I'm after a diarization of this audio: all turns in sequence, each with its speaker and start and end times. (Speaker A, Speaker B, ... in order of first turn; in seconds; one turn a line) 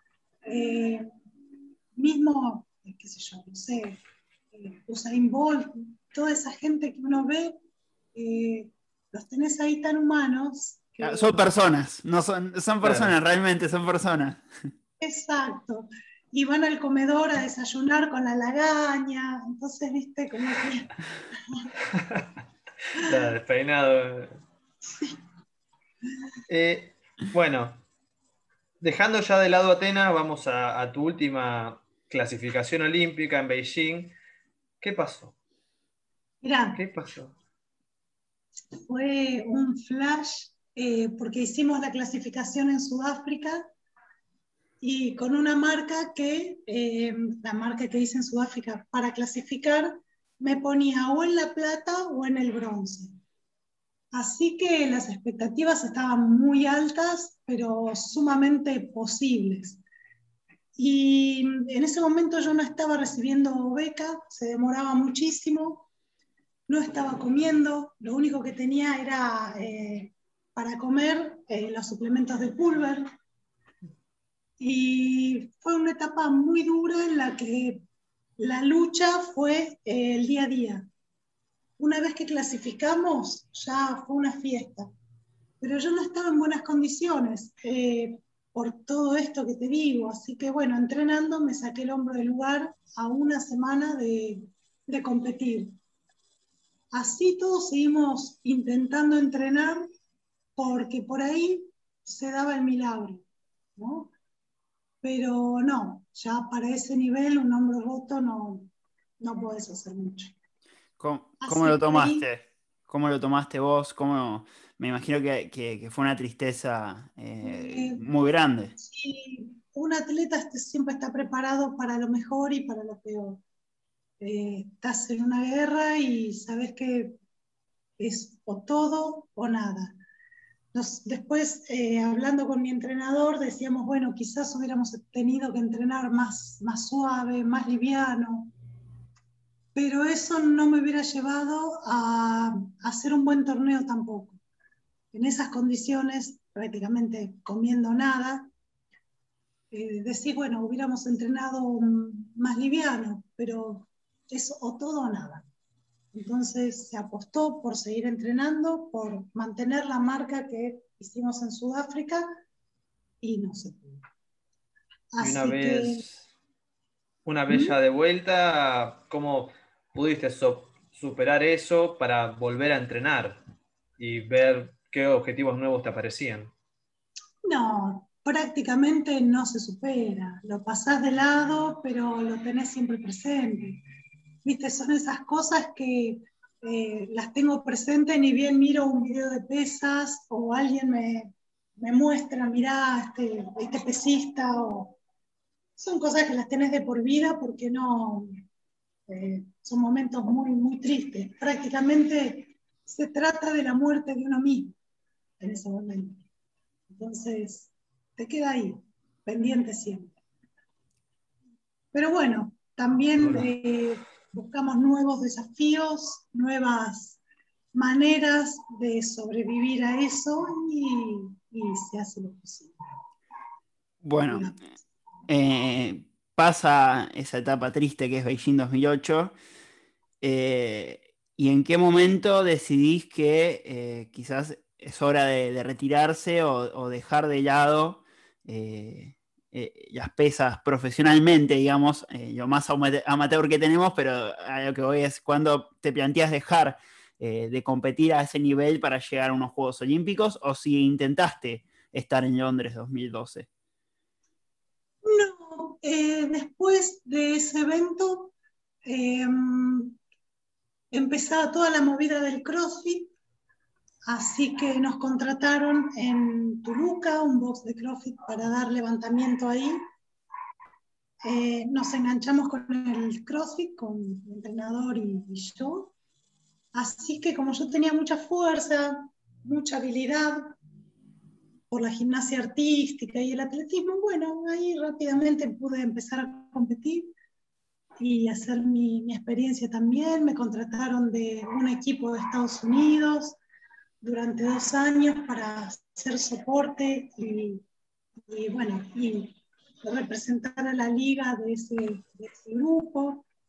Speaker A: 0.5-1.1
Speaker A: 1.9-4.0
Speaker A: 4.5-7.5
Speaker A: 8.1-11.3
Speaker B: 11.0-14.4
Speaker C: 12.8-13.1
Speaker A: 15.0-20.9
Speaker C: 21.9-22.2
Speaker C: 22.9-24.4
Speaker A: 24.8-25.2
Speaker C: 26.5-27.8
Speaker C: 28.8-34.1
Speaker C: 34.8-35.3
Speaker A: 36.4-36.8
Speaker C: 36.7-37.3
Speaker A: 38.8-43.7
Speaker A: 44.8-53.1
Speaker A: 54.1-59.8
Speaker A: 60.8-65.9
Speaker A: 66.7-73.1
Speaker A: 74.6-77.8
Speaker A: 78.4-80.9
Speaker A: 81.8-84.9
Speaker A: 85.6-95.7
Speaker A: 96.9-99.9
Speaker A: 100.5-103.2
Speaker A: 103.8-104.1
Speaker A: 105.0-110.3
Speaker B: 111.0-118.8
Speaker A: 111.4-112.3
Speaker A: 117.4-118.0
Speaker A: 118.8-123.4
Speaker A: 124.2-127.2
Speaker A: 128.0-129.9
Speaker A: 130.7-138.5
Speaker A: 139.7-144.4
Speaker A: 145.1-148.5
Speaker A: 149.7-155.4
Speaker A: 156.1-162.3
Speaker A: 163.2-164.0
Speaker A: 165.1-166.0
Speaker C: 165.2-166.3
Speaker C: 167.2-173.4
Speaker A: 167.5-167.8
Speaker C: 174.0-176.5
Speaker A: 177.4-183.8
Speaker A: 184.4-195.0
Speaker A: 195.8-198.3
Speaker A: 199.1-204.7
Speaker A: 205.4-206.2
Speaker A: 206.9-210.1
Speaker A: 211.9-217.2
Speaker C: 213.2-213.5
Speaker A: 217.7-222.7
Speaker B: 224.0-224.5
Speaker A: 224.3-224.6
Speaker B: 225.3-229.3
Speaker B: 230.2-253.5
Speaker A: 255.0-258.3
Speaker A: 258.8-260.0
Speaker A: 260.9-263.1
Speaker A: 264.1-269.8
Speaker A: 271.2-275.9
Speaker A: 276.7-280.6
Speaker A: 281.7-287.1
Speaker A: 288.0-293.4
Speaker A: 294.0-297.6
Speaker A: 298.3-303.2